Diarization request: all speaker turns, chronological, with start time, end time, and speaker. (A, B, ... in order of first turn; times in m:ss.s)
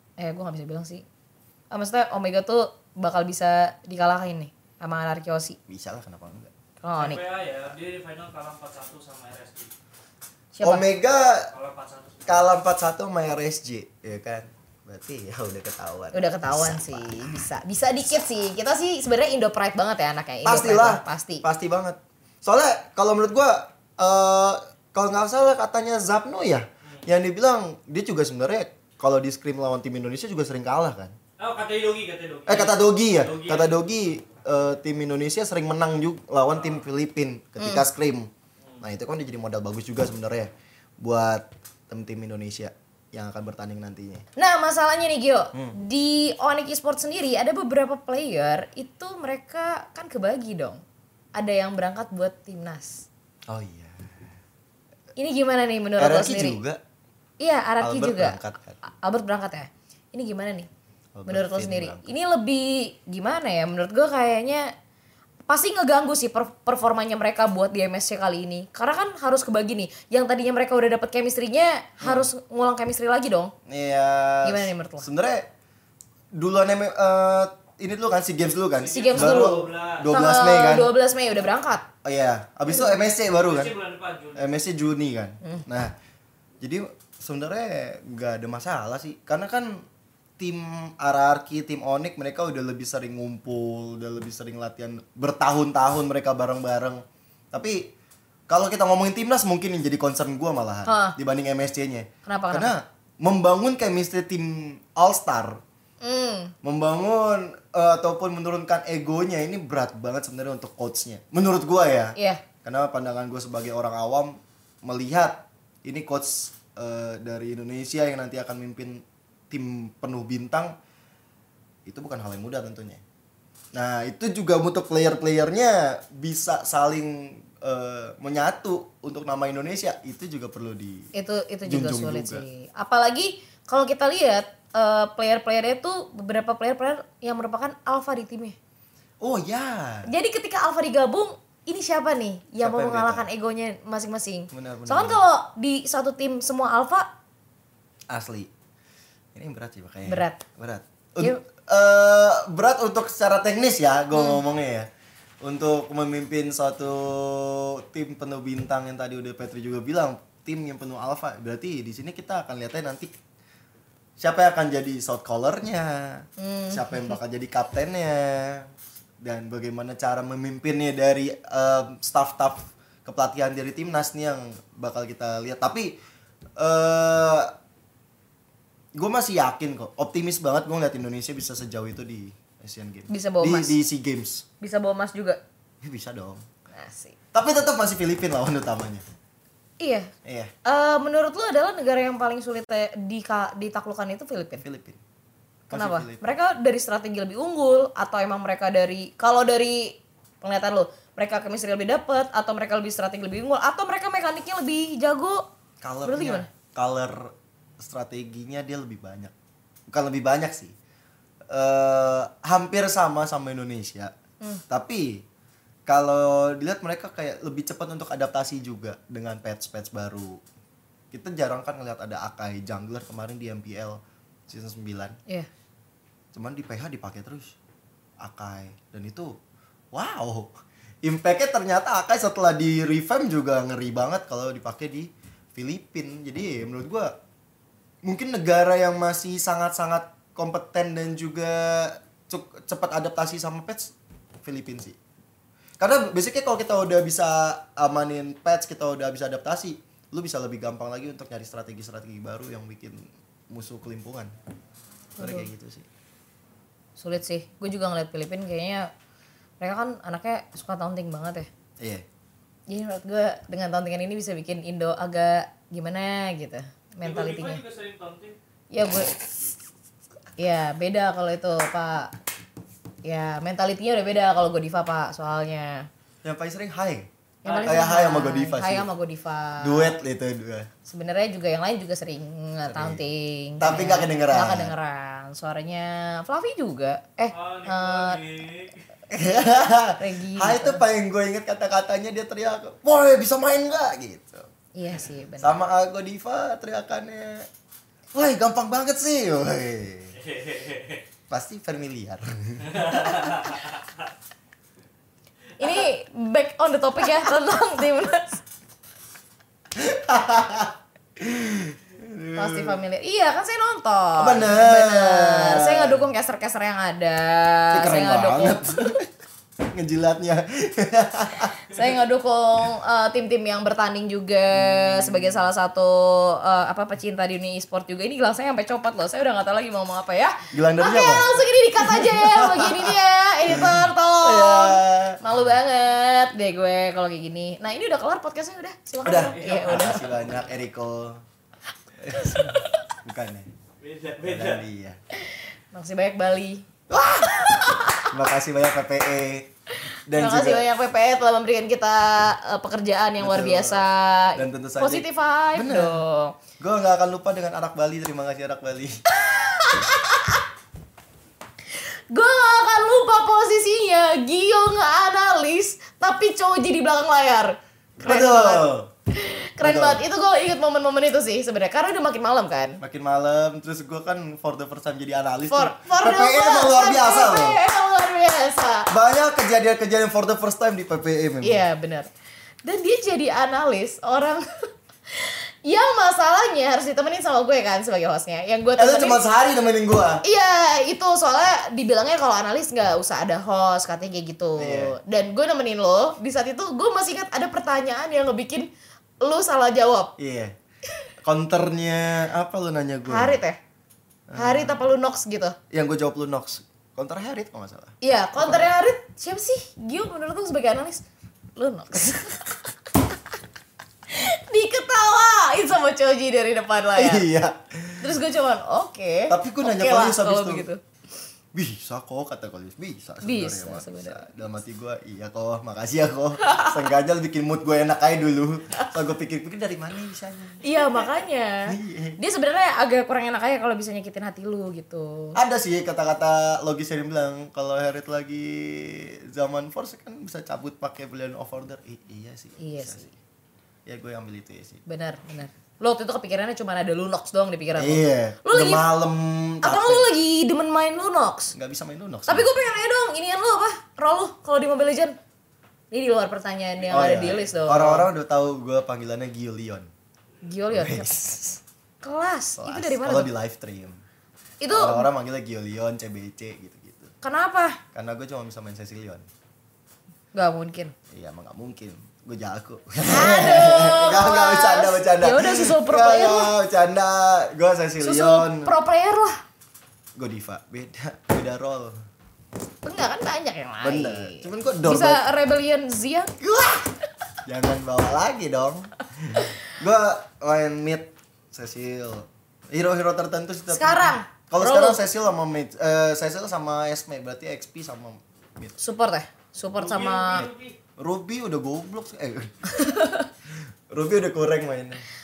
0:00.2-0:01.0 A
0:01.7-0:05.6 A
0:05.7-0:06.5 B
0:06.8-0:07.2 A
0:07.0-0:09.7 C
0:10.5-0:10.8 A
0:10.6-0:11.5 B
0:11.5-0:12.5 C
0:12.3-0:17.2 B
0:16.1-0:21.4 A
0:20.4-0:31.1 B
0:31.4-0:33.8 C
0:32.5-0:38.3 B
0:36.5-0:36.8 C
0:37.6-0:37.8 A
0:38.8-0:44.2 B
0:44.4-0:50.8 A
0:51.4-0:53.1 A
0:53.5-0:54.3 B
0:55.2-0:56.6 A
0:56.0-0:56.8 B
0:57.4-1:00.7 A
0:57.8-0:58.8 B
1:01.1-1:02.1 B
1:01.2-1:04.7 A
1:05.5-1:13.5 A
1:12.0-1:12.3 B
1:13.6-1:15.5 B
1:14.4-1:15.1 A
1:16.3-1:20.9 B
1:18.7-1:20.1 C
1:18.9-1:21.9 A
1:22.0-1:23.7 B
1:23.3-1:24.5 C
1:24.3-1:25.9 B
1:26.6-1:29.8 B
1:30.4-1:37.9 B
1:38.5-1:45.6 B
1:40.8-1:41.2 A
1:42.2-1:42.7 A
1:46.0-1:46.5 A
1:46.6-2:00.8 B
1:52.1-1:52.4 A
2:01.8-2:03.0 B
2:03.7-2:11.1 B
2:11.1-2:18.6 A
2:11.6-2:12.4 B
2:19.2-2:20.1 B
2:20.0-2:27.1 A
2:22.6-2:23.3 B
2:24.5-2:25.2 B
2:28.1-2:28.5 B
2:29.3-2:34.9 B
2:30.0-2:30.4 A
2:34.1-2:34.4 A
2:35.4-2:43.1 B
2:44.2-2:48.7 B
2:46.4-2:47.2 A
2:49.2-2:56.0 B
2:56.6-2:57.5 B
2:59.0-3:04.4 B
3:03.1-3:03.8 A
3:04.6-3:05.4 A
3:05.8-3:06.4 B
3:06.7-3:07.2 A
3:07.3-3:09.0 B
3:09.8-3:10.1 A
3:10.2-3:10.5 B
3:10.6-3:14.6 A
3:14.6-3:15.0 B
3:15.7-3:16.3 B
3:15.7-3:25.4 A
3:25.8-3:29.3 B
3:26.0-3:26.5 A
3:29.9-3:30.7 B
3:31.5-3:34.1 B
3:34.7-3:35.2 B
3:35.9-3:40.4 B
3:41.1-3:45.2 B
3:46.3-3:47.5 B
3:48.2-3:49.4 B
3:49.9-3:57.1 B
3:58.0-4:05.0 B
4:05.8-4:14.3 B
4:15.2-4:15.5 A
4:15.2-4:15.9 B
4:17.0-4:18.9 A
4:19.6-4:21.5 A
4:21.8-4:22.0 B
4:22.7-4:27.6 A
4:27.0-4:28.4 C
4:28.7-4:29.2 A
4:30.4-4:32.1 A
4:33.0-4:35.9 A
4:36.2-4:37.1 B
4:37.4-4:39.9 A
4:37.4-4:37.7 C
4:37.6-4:38.9 B
4:39.6-4:40.7 B
4:40.8-4:48.2 A
4:42.7-4:43.0 B
4:43.6-4:44.7 B
4:47.3-4:48.8 C
4:49.1-4:54.5 B
4:50.0-4:50.8 A
4:54.7-4:55.6 A
4:55.4-4:57.5 B
4:58.1-5:00.2 B
5:00.2-5:01.0 C
5:01.3-5:03.2 B
5:02.7-5:03.9 C
5:05.6-5:08.4 A
5:09.7-5:12.8 B
5:12.4-5:18.8 A
5:14.2-5:16.0 B
5:17.7-5:19.1 B
5:19.7-5:21.6 B
5:21.7-5:40.1 A
5:24.5-5:25.4 B
5:30.5-5:35.2 B
5:39.0-5:41.2 B
5:39.3-5:40.3 C
5:42.0-5:43.5 B
5:42.1-5:42.6 A
5:43.8-5:44.6 C
5:44.2-5:45.0 B
5:45.7-5:46.6 A
5:46.9-5:49.5 B
5:47.3-5:48.1 A
5:50.1-5:50.7 B
5:50.1-5:56.4 A
5:53.2-5:56.0 B
5:56.6-5:59.0 B
5:59.1-6:00.4 A
6:01.7-6:12.8 A
6:08.0-6:08.9 B
6:09.6-6:10.0 B
6:12.8-6:17.6 B
6:15.5-6:18.9 A
6:18.9-6:21.6 B
6:21.4-6:22.1 A
6:22.6-6:29.2 A
6:28.8-6:30.2 B
6:30.2-6:38.7 A
6:34.6-6:34.9 B
6:39.2-6:40.1 A
6:40.2-6:40.5 B
6:41.2-6:43.4 B
6:43.0-6:43.6 A
6:44.3-6:44.8 B
6:44.3-6:45.6 A
6:45.7-6:48.7 B
6:48.0-6:51.0 A
6:51.6-6:52.5 A
6:54.1-6:57.2 A
6:57.0-6:58.1 B
6:58.0-7:00.8 A
6:59.3-7:00.7 B
7:01.5-7:12.2 B
7:03.2-7:04.3 A
7:06.4-7:06.8 A
7:10.6-7:15.4 A
7:15.3-7:23.1 B
7:22.6-7:23.1 A
7:23.8-7:24.8 B
7:24.9-7:28.8 A
7:27.8-7:30.1 B
7:29.6-7:31.5 A
7:31.5-7:32.5 B
7:32.2-7:35.2 A
7:35.9-7:38.1 A
7:36.9-7:39.9 B
7:40.4-7:43.3 A
7:40.7-7:41.4 B
7:42.6-7:44.0 B
7:44.6-7:45.1 A
7:44.7-7:47.1 B
7:47.2-7:47.8 A
7:47.9-7:49.2 B
7:50.3-7:50.9 A
7:51.1-7:58.7 B
7:53.0-7:56.5 A
7:58.0-7:59.4 A
8:00.2-8:02.0 B
8:02.8-8:06.4 A
8:03.8-8:05.2 B
8:06.4-8:06.9 B
8:07.4-8:18.8 B
8:13.7-8:15.0 A
8:18.8-8:20.5 A
8:19.8-8:20.8 C
8:21.0-8:22.7 B
8:22.7-8:23.3 A
8:23.9-8:25.0 B